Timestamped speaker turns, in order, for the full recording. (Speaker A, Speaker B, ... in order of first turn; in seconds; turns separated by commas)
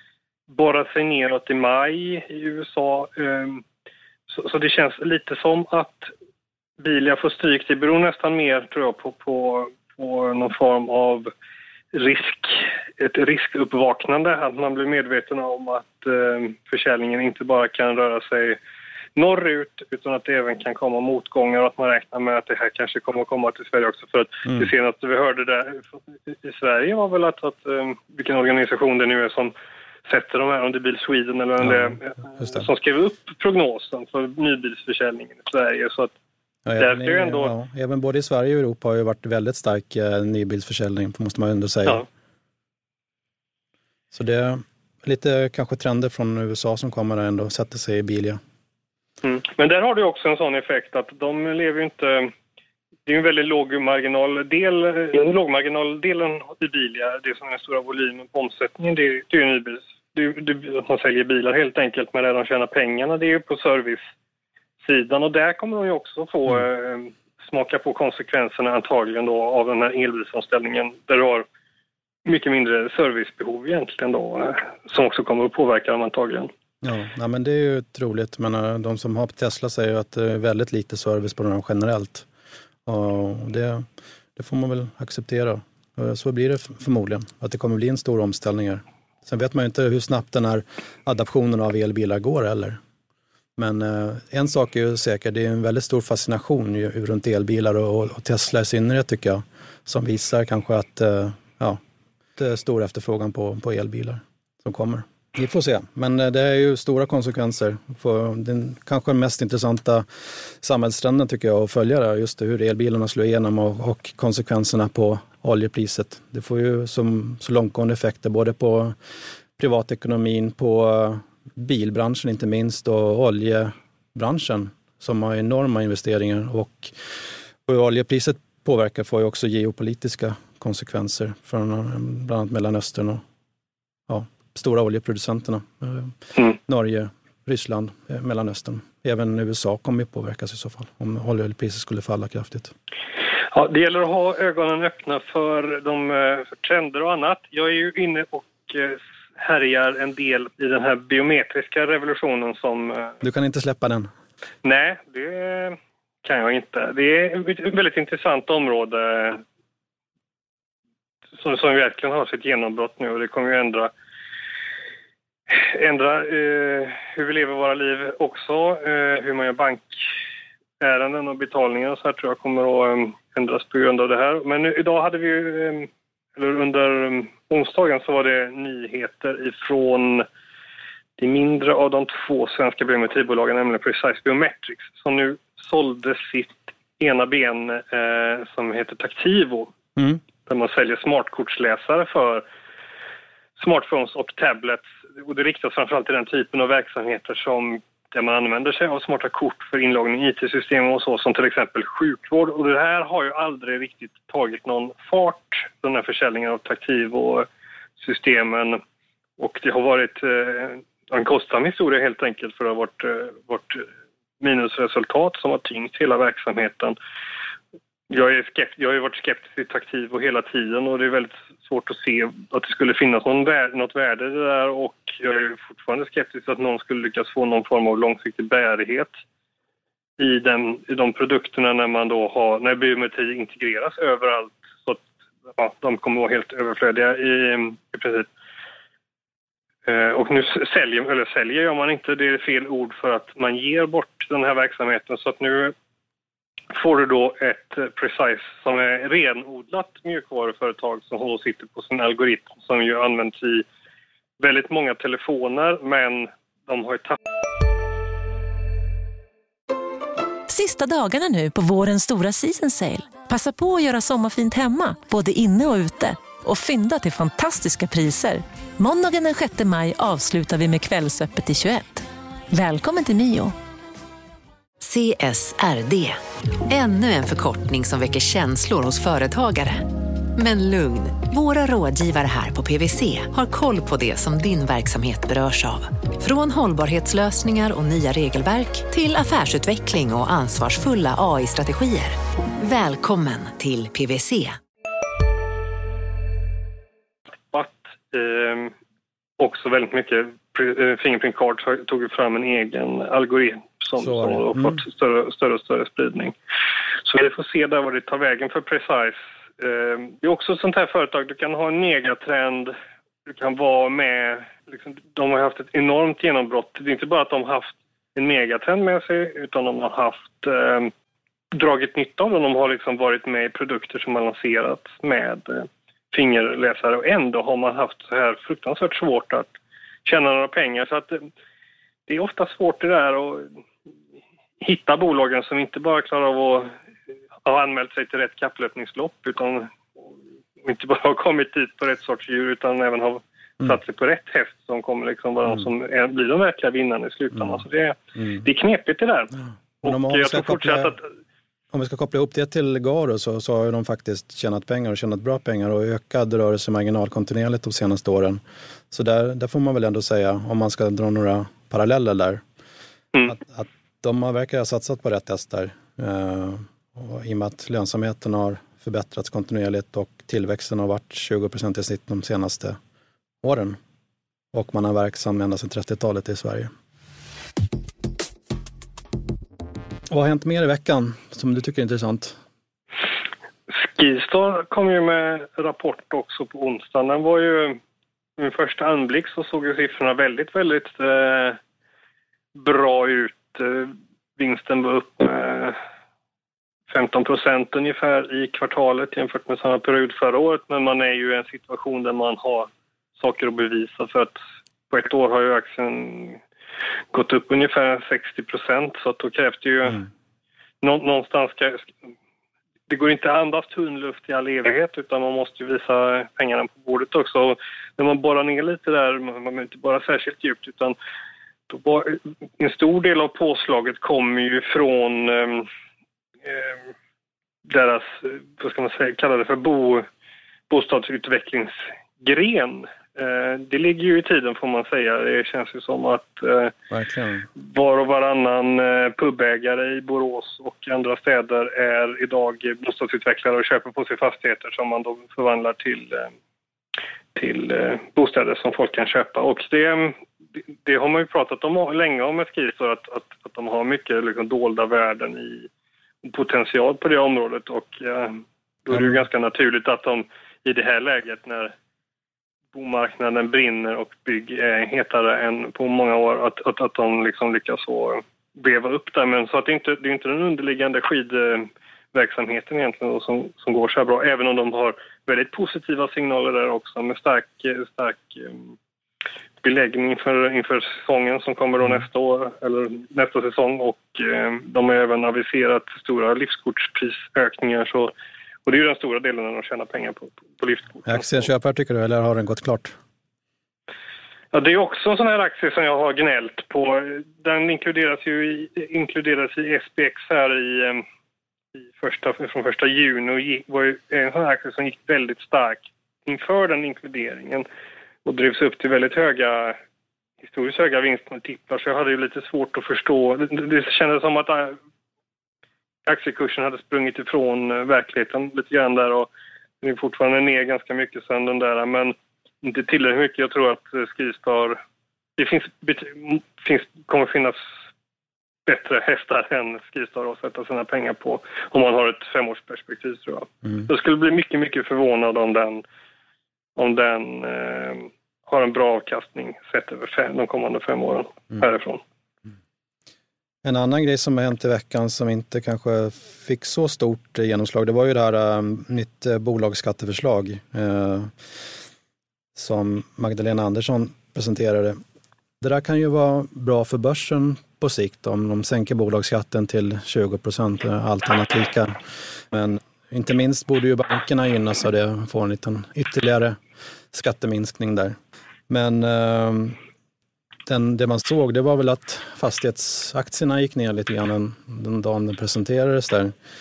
Speaker A: 0.5-3.6, Speaker A: 4.3-6.1, Speaker A: 6.8-11.3, Speaker A: 11.9-18.6, Speaker A: 19.1-29.5, Speaker A: 30.1-36.1, Speaker B: 31.6-32.6, Speaker B: 36.6-42.0, Speaker A: 36.8-37.5, Speaker B: 44.1-48.4, Speaker A: 49.2-52.3, Speaker A: 53.0-64.0, Speaker A: 64.8-71.5, Speaker A: 72.2-76.5, Speaker B: 76.8-82.2, Speaker B: 82.9-92.8, Speaker B: 93.6-101.8, Speaker B: 102.4-119.0, Speaker B: 119.6-127.0, Speaker B: 127.7-133.2, Speaker B: 134.1-142.7, Speaker A: 143.5-153.2, Speaker B: 153.2-154.1, Speaker A: 154.6-159.4, Speaker A: 161.4-163.9, Speaker A: 165.5-170.1, Speaker A: 170.8-180.2, Speaker A: 181.2-189.7, Speaker A: 190.4-192.5, Speaker A: 193.6-207.5, Speaker A: 208.0-208.8, Speaker A: 209.4-213.9, Speaker A: 214.4-217.0, Speaker A: 218.1-229.1, Speaker A: 230.2-238.3, Speaker A: 239.9-245.7, Speaker A: 246.7-253.7, Speaker A: 254.4-257.1, Speaker C: 260.5-273.5, Speaker D: 274.8-294.6, Speaker A: 297.5-298.7, Speaker A: 299.4-306.4, Speaker B: 304.0-304.8, Speaker A: 307.0-312.7, Speaker A: 313.3-320.9, Speaker A: 321.5-329.5, Speaker A: 330.0-331.3, Speaker A: 332.1-333.5, Speaker A: 334.6-336.7, Speaker A: 337.4-340.0, Speaker A: 340.6-351.1, Speaker B: 348.2-348.4, Speaker B: 349.8-351.0, Speaker B: 351.7-362.4, Speaker B: 363.3-372.8, Speaker B: 373.4-373.8, Speaker B: 374.5-376.7, Speaker B: 380.1-382.4, Speaker A: 383.7-387.8, Speaker A: 388.4-391.6, Speaker A: 392.5-395.8, Speaker A: 396.9-404.3, Speaker A: 404.9-406.4, Speaker A: 407.1-410.1, Speaker A: 410.8-411.9, Speaker A: 412.9-421.0, Speaker A: 421.7-425.7, Speaker A: 426.5-426.8, Speaker A: 427.6-430.1, Speaker A: 430.7-436.7, Speaker B: 436.9-437.5, Speaker A: 437.6-446.3, Speaker A: 447.4-450.2, Speaker A: 450.8-455.7, Speaker A: 456.2-461.7, Speaker A: 462.7-478.7, Speaker A: 479.6-488.1, Speaker A: 488.6-491.5, Speaker B: 491.1-492.9, Speaker A: 494.5-501.0, Speaker A: 501.8-507.6, Speaker A: 508.2-509.8, Speaker A: 510.4-514.8, Speaker A: 516.1-519.3, Speaker A: 519.8-524.8, Speaker A: 525.4-527.7, Speaker A: 528.6-535.8, Speaker A: 536.8-542.0, Speaker B: 543.6-551.4, Speaker B: 552.6-555.0, Speaker B: 555.6-566.6, Speaker B: 567.1-568.1, Speaker B: 568.7-569.8, Speaker B: 570.7-576.4